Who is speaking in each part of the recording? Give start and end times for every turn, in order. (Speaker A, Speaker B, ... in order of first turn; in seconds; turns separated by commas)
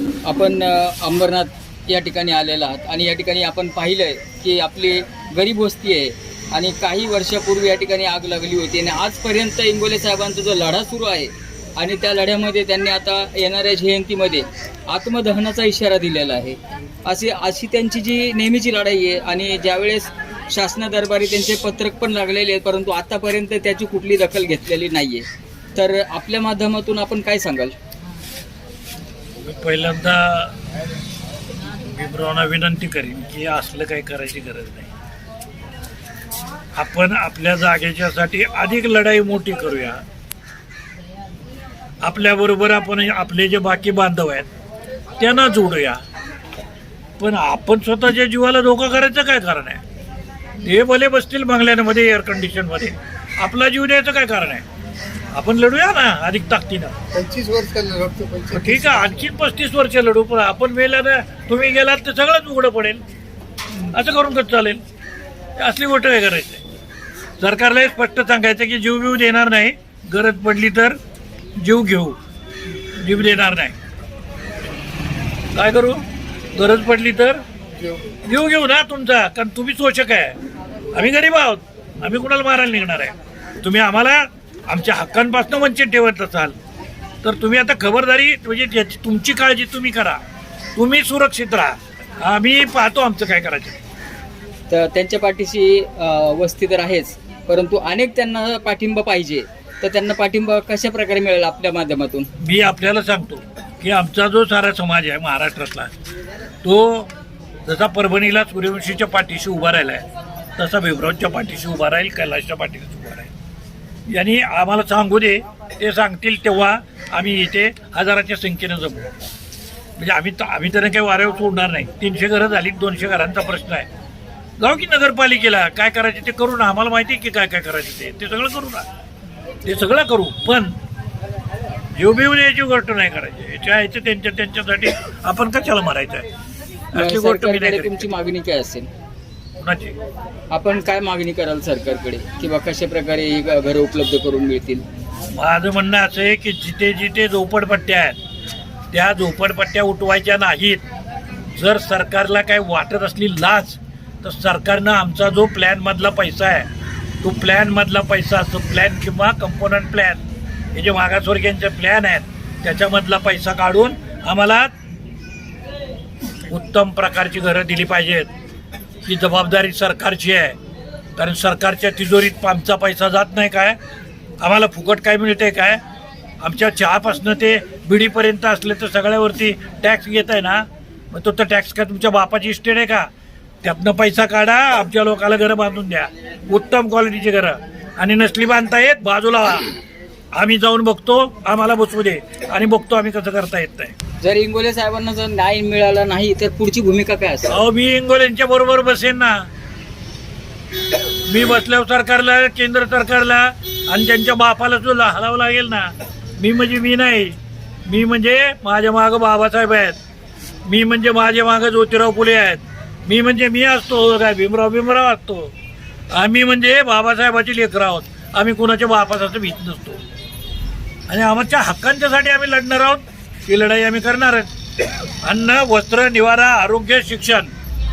Speaker A: 0.3-27.8, Speaker B: 29.4-30.5, Speaker B: 31.8-34.9, Speaker B: 36.8-40.0, Speaker B: 42.0-44.5, Speaker B: 45.2-46.0, Speaker B: 47.2-49.8, Speaker B: 50.6-54.6, Speaker B: 55.3-56.9, Speaker C: 57.1-59.2, Speaker B: 58.5-63.0, Speaker B: 63.9-64.8, Speaker B: 65.6-66.6, Speaker B: 67.4-71.0, Speaker B: 71.6-72.2, Speaker B: 73.0-73.8, Speaker B: 75.5-76.0, Speaker B: 76.5-77.4, Speaker B: 78.3-80.4, Speaker B: 80.9-86.5, Speaker B: 87.2-90.2, Speaker B: 90.8-93.8, Speaker A: 94.7-102.3, Speaker B: 102.4-105.9, Speaker B: 106.6-107.1, Speaker B: 107.7-110.0, Speaker B: 110.6-113.3, Speaker B: 114.1-119.1, Speaker B: 120.0-123.9, Speaker B: 124.6-128.9, Speaker B: 129.7-130.8, Speaker B: 132.0-136.3, Speaker B: 136.9-138.1, Speaker A: 136.9-138.9, Speaker B: 139.6-140.0, Speaker A: 140.5-144.8, Speaker B: 145.3-148.2, Speaker B: 148.9-150.8, Speaker B: 151.6-156.7, Speaker B: 157.2-160.2, Speaker B: 160.7-164.7, Speaker B: 166.5-168.3, Speaker B: 169.1-170.6, Speaker B: 171.2-173.8, Speaker B: 174.4-175.8, Speaker B: 176.4-183.1, Speaker B: 183.6-189.8, Speaker B: 190.3-193.9, Speaker A: 194.2-197.5, Speaker B: 197.5-199.5, Speaker B: 201.3-210.0, Speaker B: 210.7-215.5, Speaker B: 216.1-220.0, Speaker B: 221.1-224.5, Speaker B: 225.2-227.5